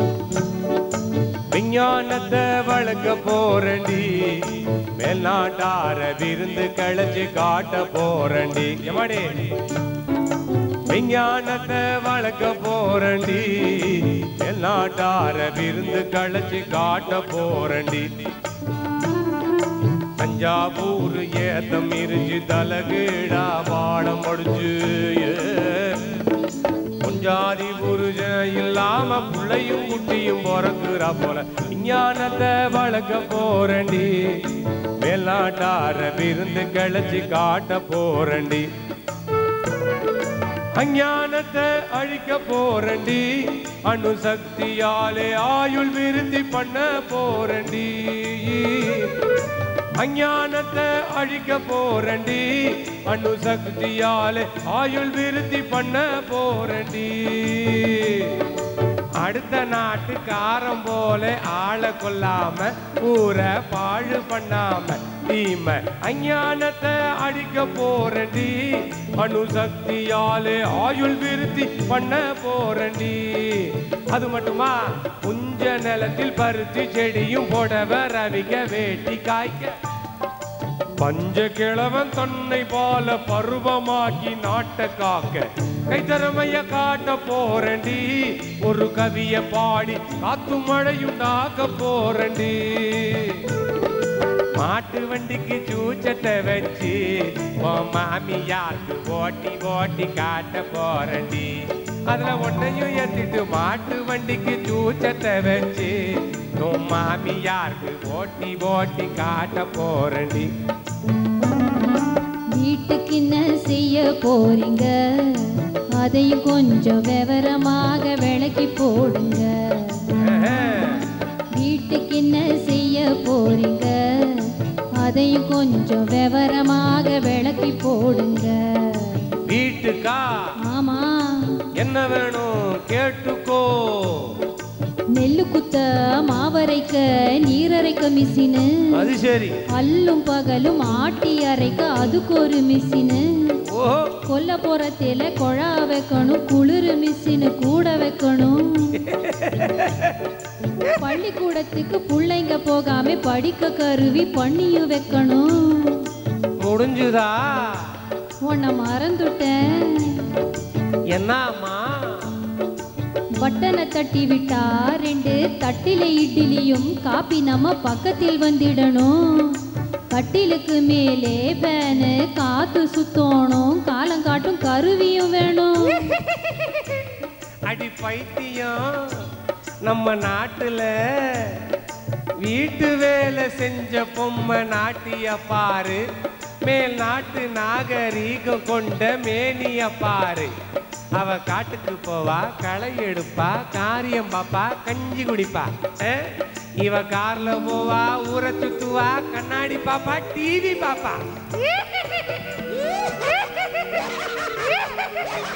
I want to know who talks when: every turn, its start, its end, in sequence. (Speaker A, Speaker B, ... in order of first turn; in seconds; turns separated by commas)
Speaker A: 1.5-9.5, Speaker A: 10.9-18.1, Speaker A: 20.2-26.2, Speaker A: 27.0-38.7, Speaker A: 40.7-49.2, Speaker A: 50.0-58.5, Speaker A: 59.2-79.7, Speaker A: 81.0-93.6, Speaker A: 94.5-110.5, Speaker B: 112.5-120.1, Speaker A: 120.2-121.1, Speaker B: 121.5-129.3, Speaker A: 129.4-130.5, Speaker B: 130.7-131.6, Speaker A: 131.8-134.4, Speaker B: 135.1-138.8, Speaker A: 138.9-139.5, Speaker B: 139.8-143.2, Speaker A: 143.7-144.2, Speaker B: 144.3-149.0, Speaker A: 149.0-150.2, Speaker B: 150.9-156.1, Speaker A: 156.6-158.0, Speaker B: 158.4-160.3, Speaker A: 161.1-162.3, Speaker B: 163.3-176.2, Speaker A: 177.7-179.2, Speaker A: 179.8-181.7, Speaker A: 182.4-186.0, Speaker A: 186.6-190.5, Speaker A: 191.2-201.2